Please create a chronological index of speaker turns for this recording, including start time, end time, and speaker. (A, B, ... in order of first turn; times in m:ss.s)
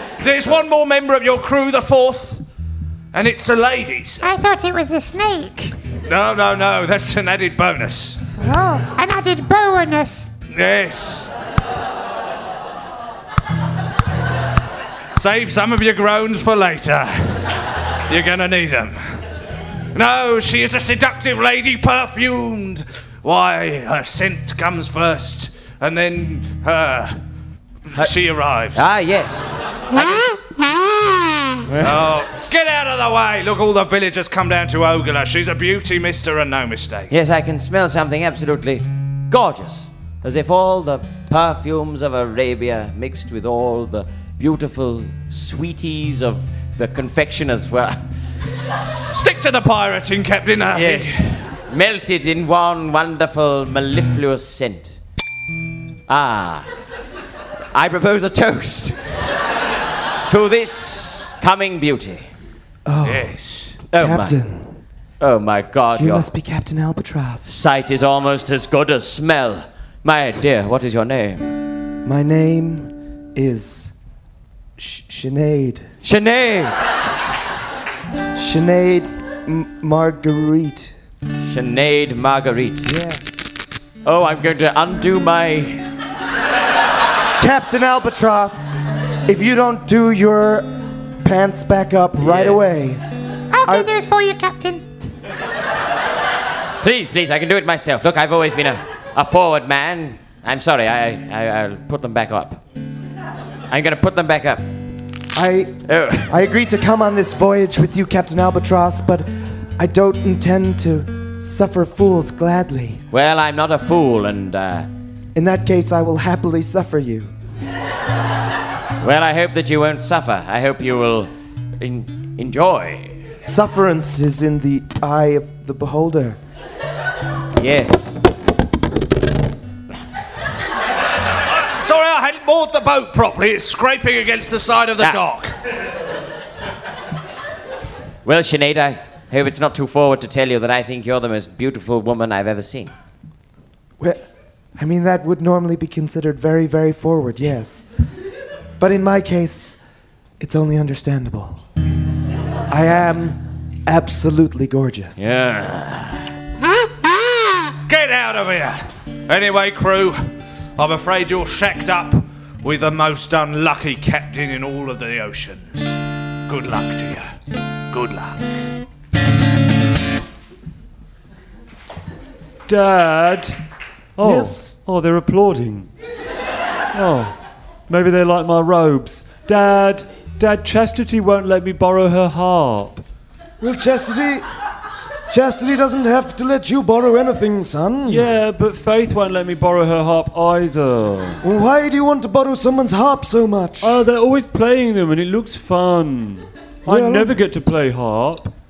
0:00.2-0:02.4 A
0:03.1-0:04.2 A
0:04.2-0:05.8 B
0:06.0-0:08.2 A
0:08.4-0:10.3 B
0:10.5-0:11.3 A
0:15.1-0:17.5 A
0:18.1-0:19.0 A
0:19.9-0:27.2 A
0:27.9-0:28.9 A
0:28.7-0:30.5 C
0:31.7-0:32.0 C
0:31.8-0:37.1 A
0:37.1-0:48.0 C
0:49.1-0:51.4 A
0:50.7-0:55.0 C
0:56.1-0:56.7 C
0:57.7-0:59.0 C
1:00.3-1:02.3 C
1:02.8-1:03.3 D
1:03.0-1:03.8 A
1:03.9-1:04.4 C
1:03.9-1:04.7 D
1:05.2-1:06.3 C
1:06.0-1:07.5 D
1:07.4-1:11.5 C
1:12.0-1:13.9 D
1:14.8-1:15.8 D
1:16.0-1:16.7 C
1:18.3-1:20.9 D
1:21.4-1:22.9 C
1:22.8-1:23.4 D
1:24.0-1:25.9 C
1:27.4-1:30.7 D
1:31.2-1:33.1 D
1:32.2-1:32.6 C
1:33.5-1:34.8 B
1:36.8-1:42.6 C
1:43.7-1:44.6 C
1:45.3-1:53.0 D
1:45.8-1:46.3 C
1:53.1-1:54.9 C
1:55.3-1:57.3 D
1:59.0-2:03.1 C
2:03.4-2:06.4 D
2:07.6-2:08.2 C
2:11.5-2:15.5 A
2:18.2-2:22.9 C
2:24.8-2:27.9 D
2:28.8-2:29.8 D
2:30.4-2:31.6 D
2:32.7-2:35.3 D
2:35.2-2:36.2 C
2:37.9-2:40.2 A
2:40.8-2:45.9 A
2:46.5-2:47.3 A
2:47.9-2:48.5 A
2:52.7-2:53.6 E
2:54.2-2:55.9 E
2:54.2-2:54.6 D
2:56.9-2:57.3 E
2:57.9-3:03.0 E
3:03.6-3:04.4 D
3:05.3-3:08.3 D
3:08.0-3:11.4 E
3:11.4-3:14.0 D
3:13.8-3:18.5 E
3:16.8-3:17.4 D